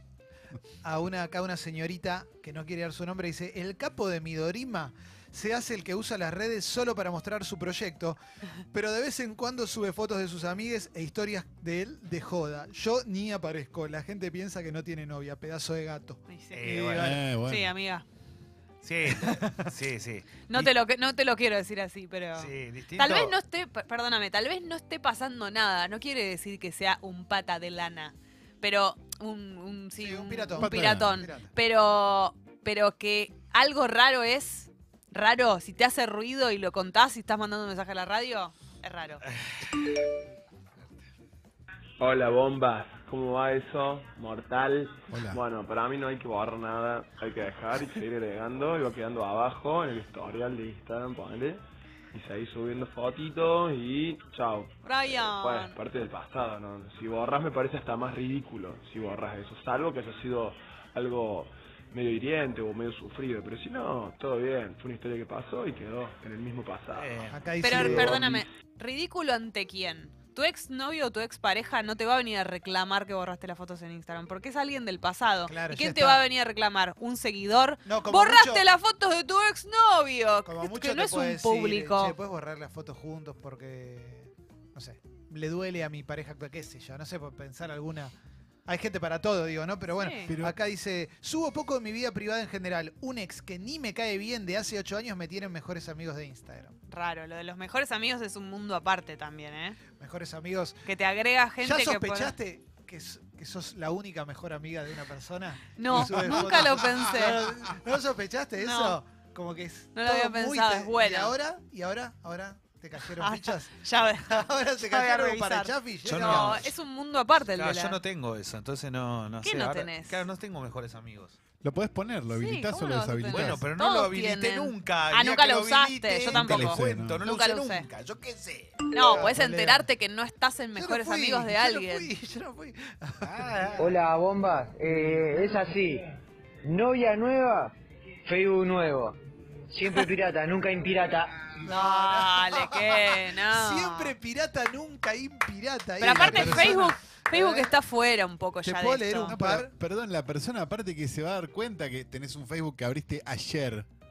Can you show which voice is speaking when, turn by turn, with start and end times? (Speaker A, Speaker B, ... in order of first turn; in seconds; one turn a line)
Speaker A: 0.8-8.2
Speaker A: 8.7-17.2
Speaker B: 16.3-16.7
Speaker C: 16.5-17.1
Speaker D: 16.9-17.7
Speaker B: 17.4-18.0
Speaker C: 18.8-20.4
Speaker A: 19.1-19.7
Speaker B: 20.5-39.2
Speaker C: 22.4-23.3
Speaker A: 30.0-31.5
Speaker D: 30.6-31.2
Speaker E: 42.0-51.6
Speaker D: 45.1-45.4
Speaker E: 52.1-68.4
Speaker B: 54.8-55.8
Speaker C: 66.9-67.4
Speaker A: 67.3-68.3
Speaker B: 67.6-82.1
Speaker A: 75.5-76.2
Speaker A: 77.8-78.6
Speaker A: 80.4-88.1
Speaker A: 88.7-96.7
Speaker B: 90.0-90.3
Speaker D: 90.2-90.5
Speaker B: 96.9-99.8
Speaker A: 100.0-100.8
Speaker B: 100.8-102.3
Speaker A: 101.6-113.7
Speaker B: 105.8-107.5
Speaker D: 105.9-106.9
Speaker B: 108.6-109.0
Speaker B: 110.0-111.3
Speaker B: 113.2-118.0
Speaker A: 114.2-116.6
Speaker C: 116.0-116.7
Speaker C: 117.5-121.4
Speaker B: 119.4-120.2
Speaker D: 121.6-123.6
Speaker B: 122.3-127.9
Speaker C: 123.3-128.8
Speaker D: 126.3-127.2
Speaker B: 128.9-132.1
Speaker A: 129.0-129.9
Speaker A: 130.8-133.8
Speaker C: 133.2-133.9
Speaker F: 133.8-136.0
Speaker F: 136.6-137.7
Speaker F: 138.2-139.2
Speaker F: 139.7-141.4
Speaker A: 141.6-147.7
Speaker B: 141.7-144.1
Speaker B: 146.0-149.3
Speaker D: 146.1-146.9
Speaker A: 148.6-149.7
Speaker D: 149.2-153.9